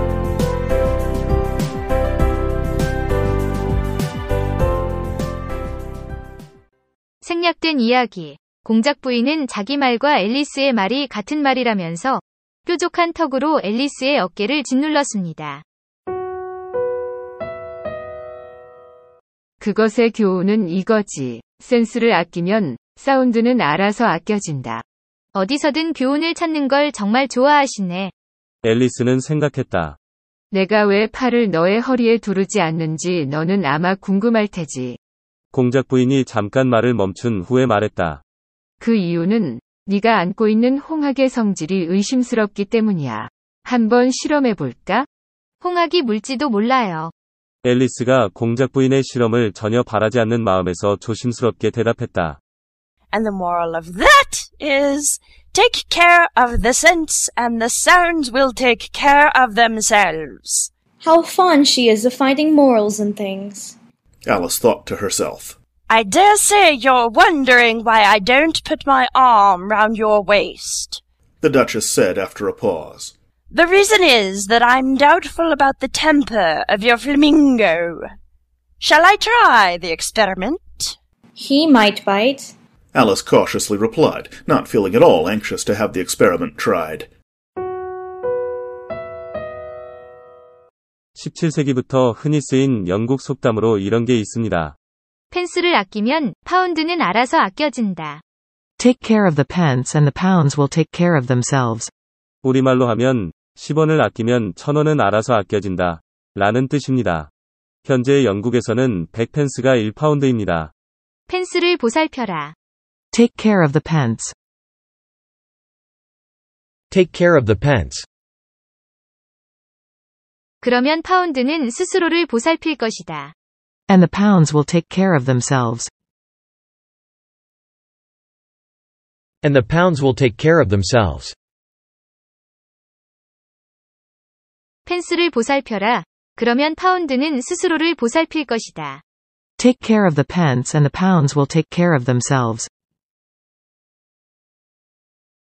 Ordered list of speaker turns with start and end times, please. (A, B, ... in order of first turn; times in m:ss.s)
0:07.2-0:15.6 A
0:19.6-0:24.8 B
0:25.3-0:28.1 A
0:28.6-0:30.0 C
0:30.5-0:35.0 B
0:35.5-0:38.2 C
0:38.8-0:45.1 B
0:45.6-0:47.1 A
0:47.6-0:52.4 C
0:53.1-1:00.7 D
1:01.0-1:03.8 E
1:04.2-1:05.6 F
1:05.9-1:11.0 D
1:11.4-1:13.1 F
1:13.5-1:18.0 D
1:18.8-1:21.0 D
1:21.4-1:22.5 E
1:22.9-1:27.1 F
1:31.1-1:34.7 C
1:35.3-1:38.2 A
1:38.8-1:41.9 G
1:42.4-1:47.3 C
1:47.8-1:50.7 C
1:51.3-1:52.5 A
1:53.2-1:54.3 G
1:56.9-1:58.0 H
2:00.6-2:03.3 A
2:04.0-2:05.8 G
2:09.4-2:11.3 H
2:14.8-2:19.0 A
2:19.6-2:22.6 G